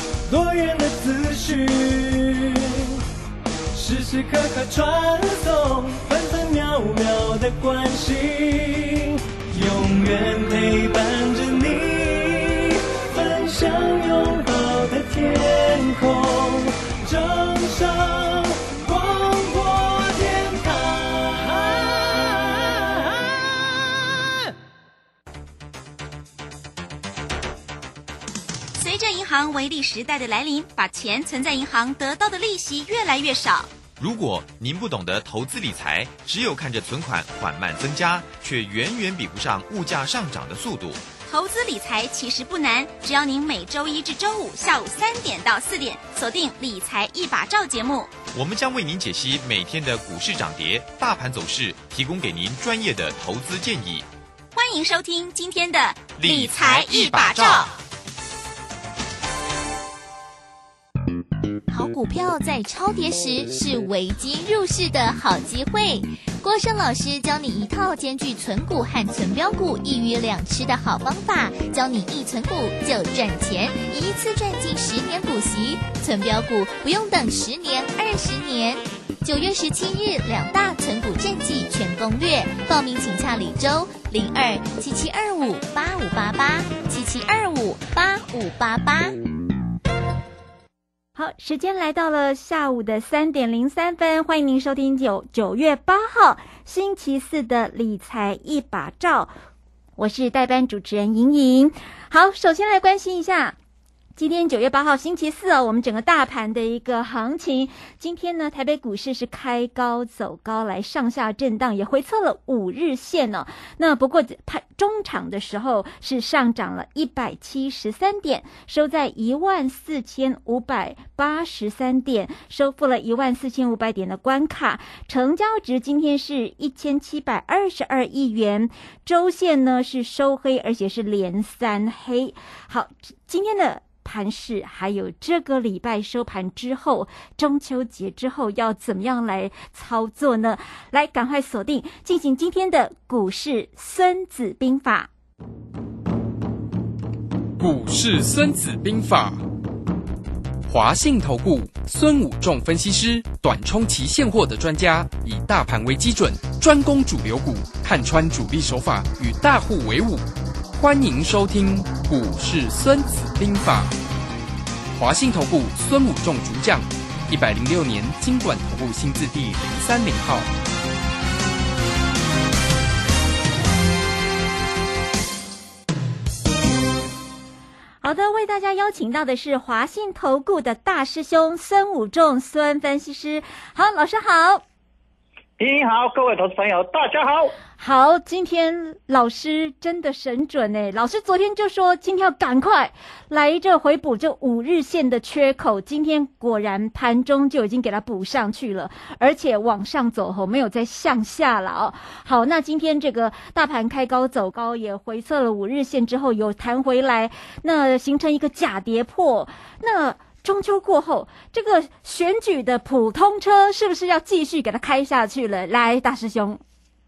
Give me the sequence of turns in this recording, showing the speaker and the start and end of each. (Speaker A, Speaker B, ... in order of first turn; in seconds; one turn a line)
Speaker A: 0.3-3.0
Speaker A: 3.7-23.3
Speaker B: 28.8-33.7
Speaker C: 34.0-41.1
Speaker B: 41.2-48.1
Speaker C: 48.3-54.1
Speaker B: 54.5-57.7
Speaker C: 56.2-57.8
Speaker D: 61.7-89.2
Speaker E: 91.2-99.3
Speaker E: 100.0-103.5
Speaker E: 104.2-145.1
Speaker F: 147.6-149.4
Speaker F: 150.7-163.9
Speaker F: 164.9-170.5
Speaker E: 178.0-184.6
Speaker G: 185.6-187.6
Speaker E: 187.8-216.6